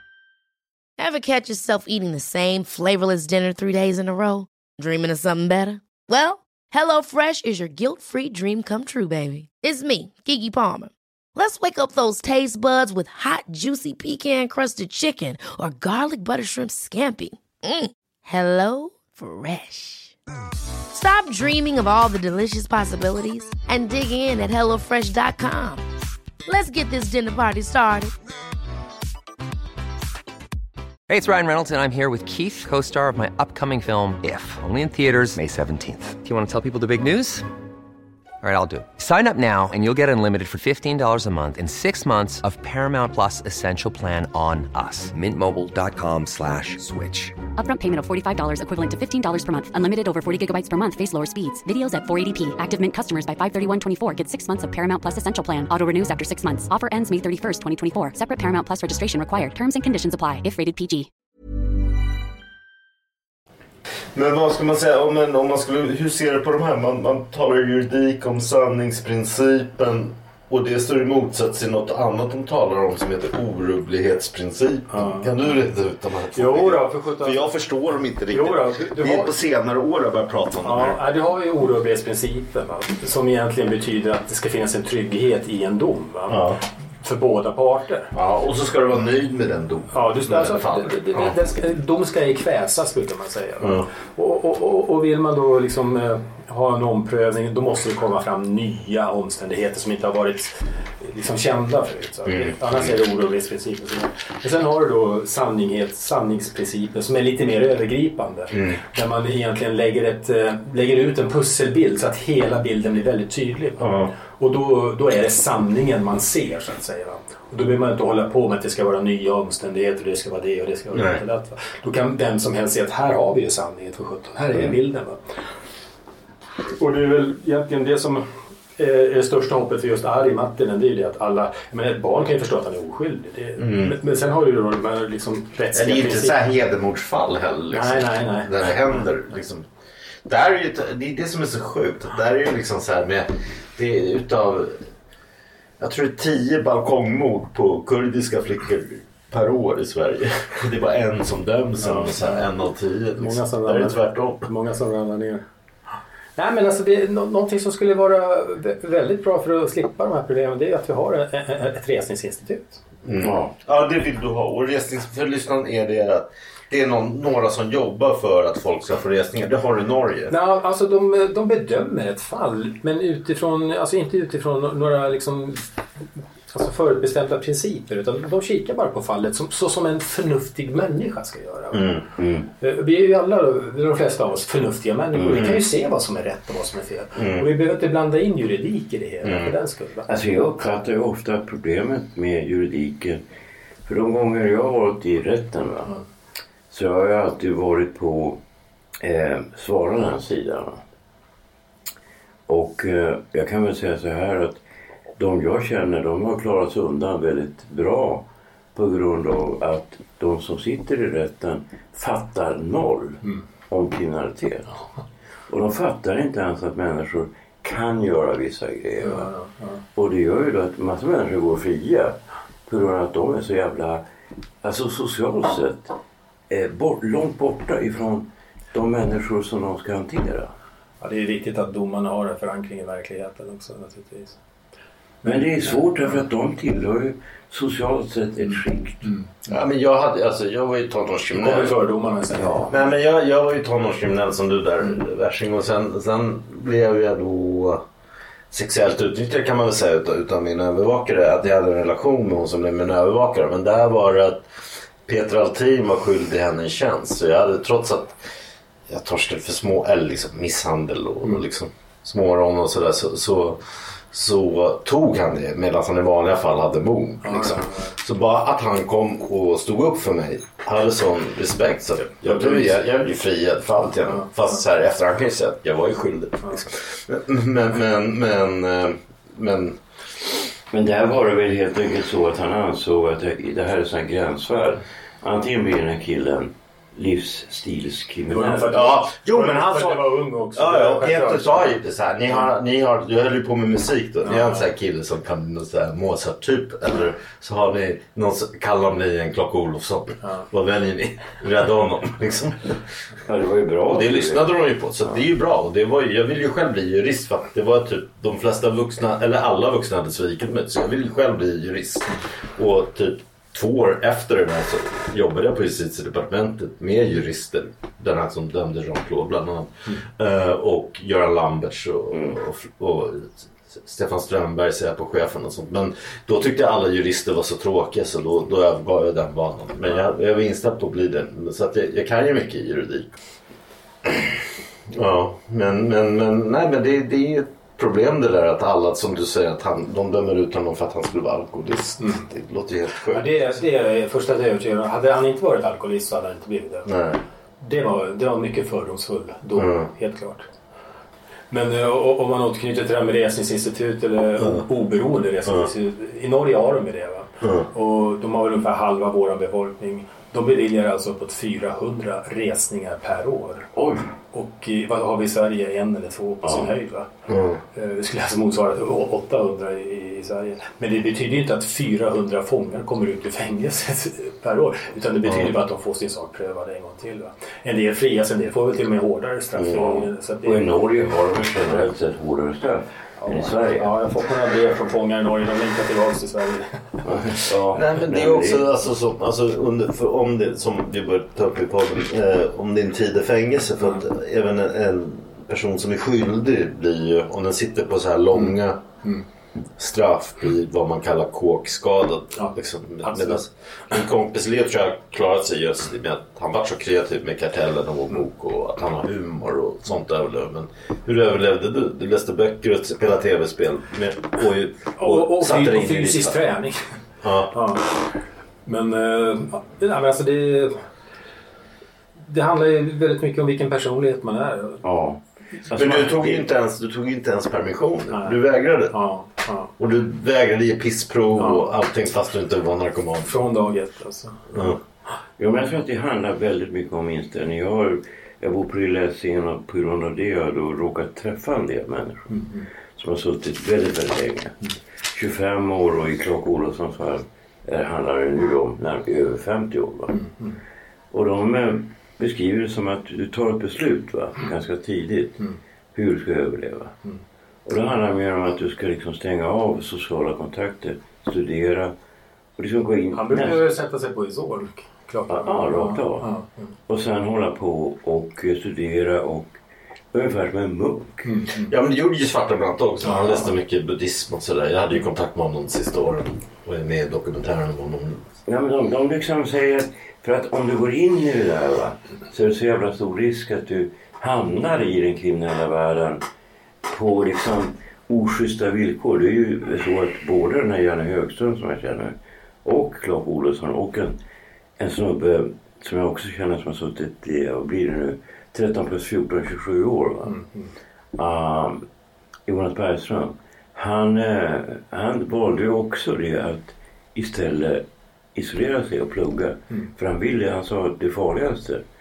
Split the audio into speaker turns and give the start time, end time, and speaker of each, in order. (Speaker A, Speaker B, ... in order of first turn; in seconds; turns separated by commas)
Speaker A: 1.0-20.1, Speaker A: 20.9-25.9, Speaker A: 26.5-28.1, Speaker B: 31.1-37.5, Speaker B: 38.4-47.4, Speaker C: 47.5-61.1, Speaker D: 64.1-81.0, Speaker E: 74.9-75.3, Speaker E: 76.3-77.5, Speaker E: 78.3-79.3, Speaker E: 80.6-88.1, Speaker D: 86.3-86.6, Speaker D: 88.1-91.3, Speaker E: 89.9-125.2, Speaker D: 93.6-93.9, Speaker D: 102.2-102.9, Speaker D: 108.5-108.8, Speaker D: 113.8-114.1, Speaker D: 120.9-121.2, Speaker E: 126.8-128.2, Speaker E: 128.8-136.3, Speaker D: 133.6-134.0, Speaker D: 135.7-139.7, Speaker E: 137.7-138.5, Speaker D: 140.2-144.9, Speaker D: 145.8-154.4, Speaker E: 151.8-152.5, Speaker E: 153.2-155.4, Speaker E: 156.3-162.8, Speaker D: 163.0-170.3, Speaker F: 163.2-163.5, Speaker E: 170.3-175.6, Speaker E: 176.5-182.0, Speaker D: 181.7-182.0, Speaker F: 182.2-182.5, Speaker E: 182.6-190.1, Speaker F: 185.1-185.5, Speaker D: 185.3-185.6, Speaker D: 187.1-187.5, Speaker D: 189.2-189.5, Speaker F: 190.1-193.2, Speaker F: 193.8-195.9, Speaker F: 196.7-198.4, Speaker F: 199.0-200.8, Speaker F: 202.5-204.6, Speaker F: 205.2-214.8, Speaker F: 215.5-219.3, Speaker E: 219.0-219.8, Speaker F: 219.9-224.0, Speaker F: 224.6-225.9, Speaker F: 226.5-230.5, Speaker E: 231.0-234.4, Speaker F: 235.2-239.1, Speaker E: 239.0-239.3, Speaker D: 239.5-241.7, Speaker E: 241.3-242.8, Speaker F: 242.3-242.7, Speaker D: 242.7-247.8, Speaker D: 248.5-254.5, Speaker D: 255.0-258.2, Speaker D: 258.9-279.8, Speaker E: 267.2-267.9, Speaker F: 280.7-288.8, Speaker E: 288.3-291.7, Speaker D: 288.7-302.8, Speaker E: 294.2-294.6, Speaker F: 303.2-304.5, Speaker D: 303.9-333.1, Speaker D: 334.0-343.3, Speaker E: 343.1-346.9, Speaker D: 346.8-347.2, Speaker E: 347.6-350.5, Speaker D: 349.5-349.9, Speaker E: 351.5-363.7, Speaker D: 354.4-354.6, Speaker D: 355.4-355.7, Speaker D: 357.4-357.7, Speaker F: 363.7-364.1, Speaker E: 364.3-367.1, Speaker F: 366.4-366.7, Speaker D: 367.3-367.6, Speaker E: 367.7-380.7, Speaker D: 375.2-375.5, Speaker D: 379.5-379.9, Speaker F: 379.7-383.9, Speaker E: 383.2-387.4, Speaker F: 387.0-388.7, Speaker D: 387.7-398.8, Speaker D: 399.8-416.4, Speaker E: 403.0-403.4, Speaker E: 415.0-416.8, Speaker D: 417.2-417.6, Speaker E: 417.5-417.9, Speaker E: 418.6-420.8, Speaker E: 422.2-424.8, Speaker F: 424.8-426.4, Speaker D: 425.7-428.9, Speaker E: 428.1-428.4, Speaker E: 428.9-429.7, Speaker D: 429.8-433.4, Speaker E: 431.4-431.7, Speaker E: 433.2-434.7, Speaker D: 434.5-434.8, Speaker F: 435.4-442.4, Speaker E: 442.3-442.6, Speaker F: 442.9-444.6, Speaker F: 445.1-450.2, Speaker E: 450.1-450.6, Speaker F: 451.1-456.9, Speaker F: 457.6-461.9, Speaker F: 462.6-463.6, Speaker E: 463.1-466.7, Speaker F: 465.3-466.3, Speaker F: 466.9-469.5, Speaker F: 470.1-471.4, Speaker E: 471.2-471.7, Speaker D: 471.6-478.2, Speaker E: 473.1-473.5, Speaker F: 478.4-486.2, Speaker F: 486.9-494.1, Speaker F: 494.8-500.3, Speaker E: 500.2-500.7, Speaker F: 501.2-501.8, Speaker F: 502.5-507.8, Speaker F: 508.3-511.8